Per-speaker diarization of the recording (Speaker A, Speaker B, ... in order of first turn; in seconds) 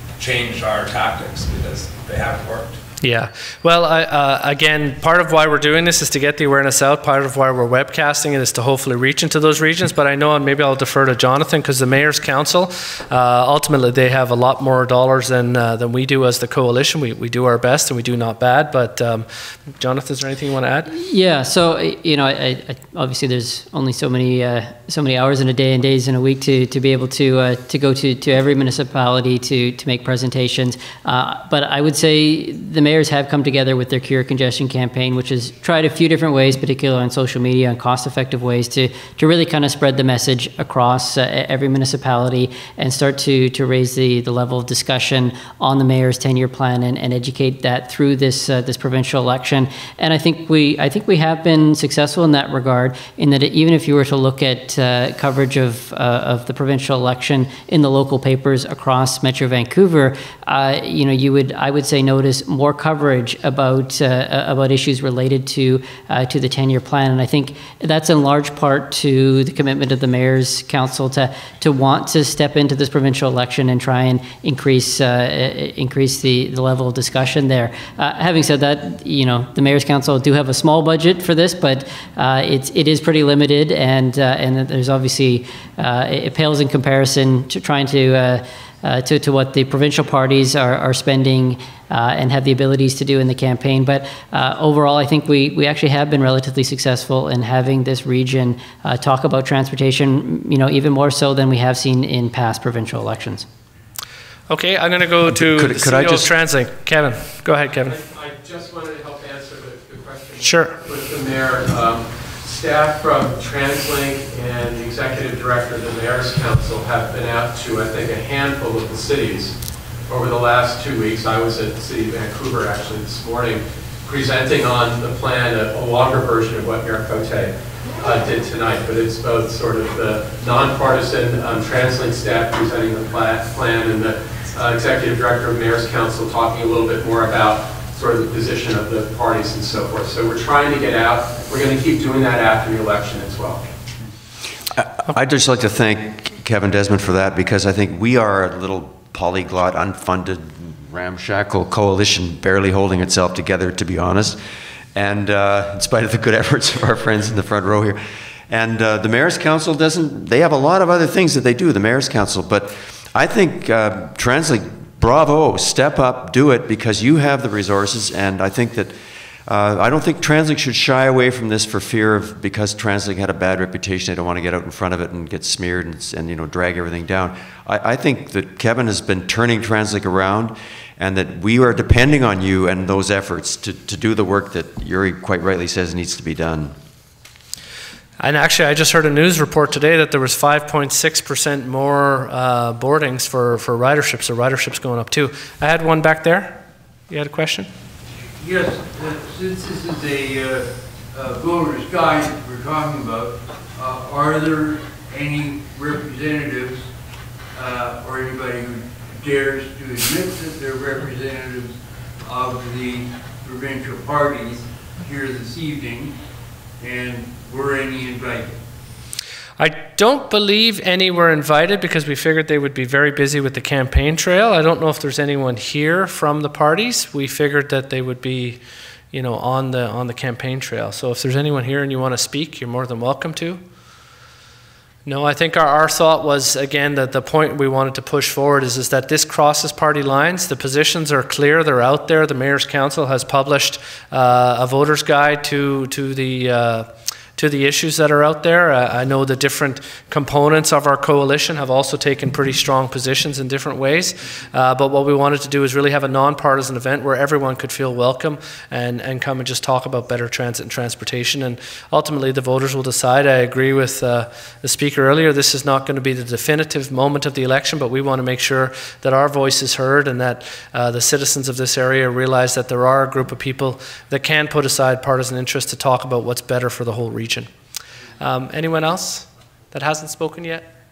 Speaker A: 0.2-2.8
Speaker B: 3.0-20.9, 104.5-107.9, 110.4-110.8, 188.2-197.7, 219.6-228.6, 229.1-233.6, 235.0-277.5, 278.2-280.7
Speaker C: 20.9-103.5
Speaker D: 105.3-106.3, 144.7-154.4, 154.9-168.9, 169.5-186.7
Speaker E: 107.6-119.6, 120.1-143.6
Speaker F: 198.3-206.9, 207.5-216.1, 216.8-218.6